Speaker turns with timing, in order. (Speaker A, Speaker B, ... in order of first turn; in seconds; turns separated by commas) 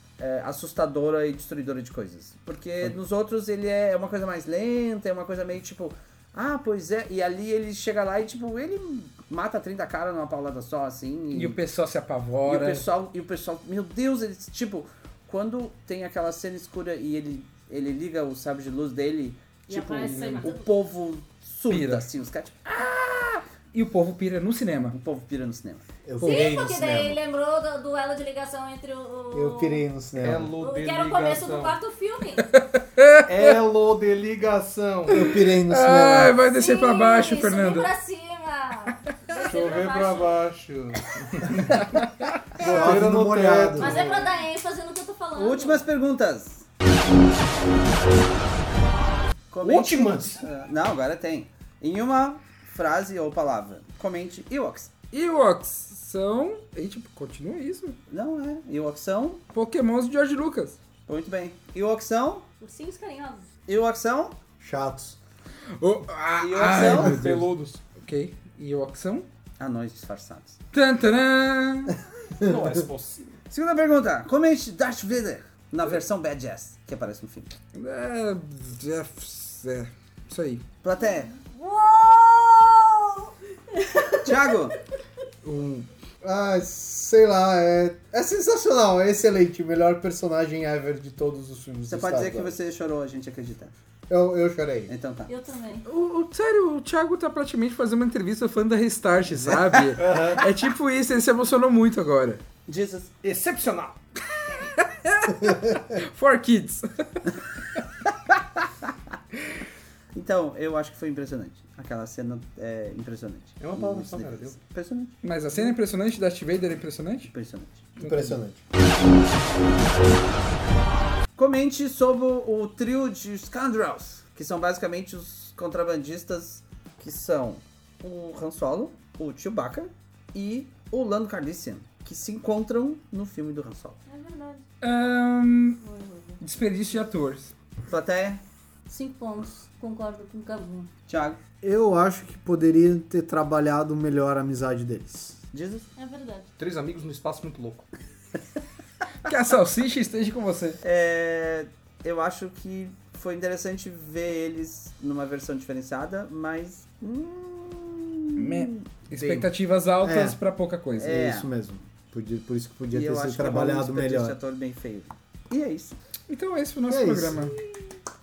Speaker A: 0.2-11.6, Speaker B: 11.3-12.8, Speaker A: 12.4-22.6, Speaker C: 19.7-20.6, Speaker D: 20.0-20.4, Speaker B: 21.7-22.1, Speaker B: 22.6-24.9, Speaker A: 24.9-25.8, Speaker E: 26.0-27.2, Speaker C: 26.2-29.9, Speaker E: 29.3-30.5, Speaker D: 30.2-31.8, Speaker C: 30.6-32.5, Speaker B: 32.5-33.6, Speaker D: 33.3-35.3, Speaker E: 35.1-36.4, Speaker B: 35.4-37.9, Speaker C: 36.5-40.4, Speaker D: 39.4-44.2, Speaker B: 41.9-42.4, Speaker E: 42.6-44.1, Speaker C: 43.8-45.9, Speaker A: 45.3-46.6, Speaker A: 49.5-54.9, Speaker D: 49.6-50.5, Speaker B: 55.1-58.0, Speaker A: 58.1-59.4, Speaker B: 59.5-60.8, Speaker A: 61.1-62.5, Speaker C: 62.6-63.4, Speaker A: 63.7-64.4, Speaker E: 64.6-65.2, Speaker B: 65.8-69.2, Speaker A: 66.4-67.2, Speaker D: 66.7-67.8, Speaker A: 69.6-70.6, Speaker B: 70.7-72.0, Speaker D: 72.4-73.3, Speaker E: 72.4-72.7, Speaker A: 73.5-77.5, Speaker B: 77.7-80.6, Speaker A: 80.8-81.4, Speaker C: 81.4-84.3, Speaker A: 84.2-84.8, Speaker E: 86.2-92.6, Speaker A: 91.9-93.7, Speaker E: 94.1-94.9, Speaker A: 94.9-95.3, Speaker C: 95.3-95.8, Speaker B: 95.8-102.4, Speaker D: 99.9-100.5, Speaker A: 102.7-103.1, Speaker D: 103.2-104.0, Speaker B: 104.6-107.3, Speaker A: 110.1-115.1, Speaker D: 113.6-114.6, Speaker B: 115.2-117.3, Speaker A: 117.3-117.9, Speaker B: 118.0-118.4, Speaker E: 118.0-118.6, Speaker A: 121.3-134.0, Speaker C: 134.1-134.6, Speaker B: 134.8-135.8, Speaker C: 135.8-136.4, Speaker B: 136.4-137.5, Speaker A: 137.9-138.4, Speaker C: 138.9-140.9, Speaker A: 141.1-141.4, Speaker E: 141.6-145.4, Speaker A: 145.5-145.8, Speaker C: 146.0-146.5, Speaker D: 146.6-147.8, Speaker B: 149.2-150.8, Speaker A: 150.8-158.8, Speaker B: 158.4-161.2, Speaker E: 160.0-160.4, Speaker A: 161.0-161.5, Speaker E: 161.1-164.3, Speaker A: 162.9-166.0, Speaker B: 166.3-167.5, Speaker E: 166.9-167.5